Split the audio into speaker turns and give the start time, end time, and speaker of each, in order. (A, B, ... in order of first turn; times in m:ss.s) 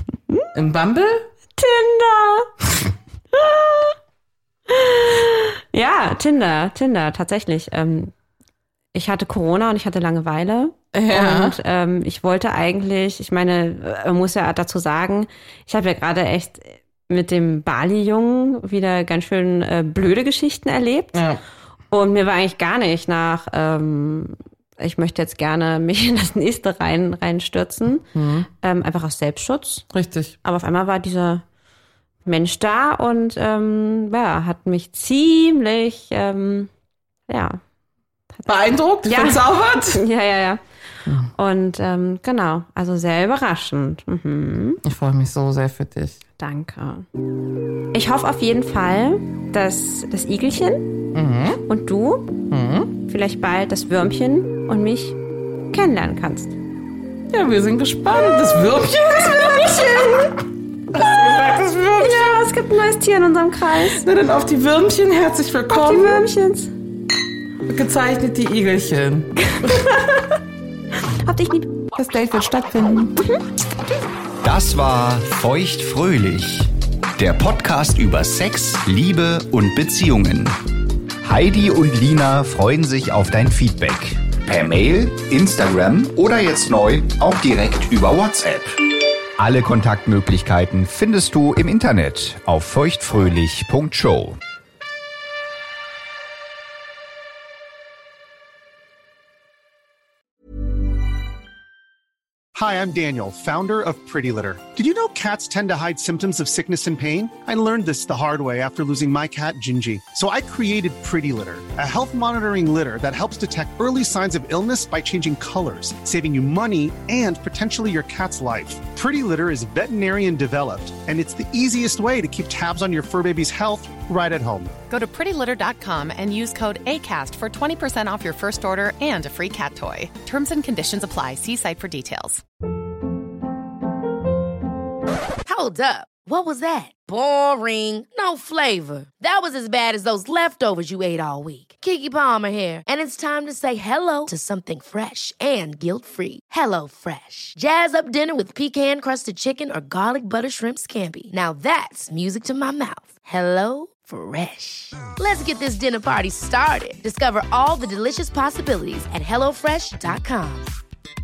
0:00.5-0:01.3 A
0:01.6-0:02.5 B
0:03.3-0:04.0 B
0:04.7-0:08.1 B
0:08.9-0:21.2 B
0:10.9-0:11.6 A
0:21.1-0:21.4 A
0:21.9-0:28.0 B
0:28.1-0:28.5 A
0:28.6-0:29.8 B
0:29.9-0:30.4 A
0:30.4-0:31.4 B
0:32.2-0:36.7 B
0:37.3-0:37.6 B
0:38.4-0:40.0 A
0:39.0-0:40.6 B
0:41.0-0:41.3 A
0:41.3-0:44.8 B
0:44.8-0:46.2 A
0:46.4-0:47.1 B
0:47.9-0:51.0 B
0:51.1-0:51.6 A
0:51.7-0:52.4 B
0:52.5-0:52.9 A
0:53.0-0:55.2 B
0:55.7-0:56.6 B
0:57.3-1:00.2 A
0:59.2-1:00.4 B
1:00.9-1:02.3 A
1:02.0-1:04.1 B
1:03.9-1:06.2 A
1:05.7-1:06.7 B
1:07.6-1:09.9 A
1:09.5-1:10.2 B
1:11.2-1:11.8 B
1:11.9-1:13.2 A
1:14.4-1:20.6 C
1:21.2-1:28.8 C
1:29.4-1:34.4 C
1:42.5-2:04.8 D
2:04.9-2:12.4 E
2:15.4-2:40.7 F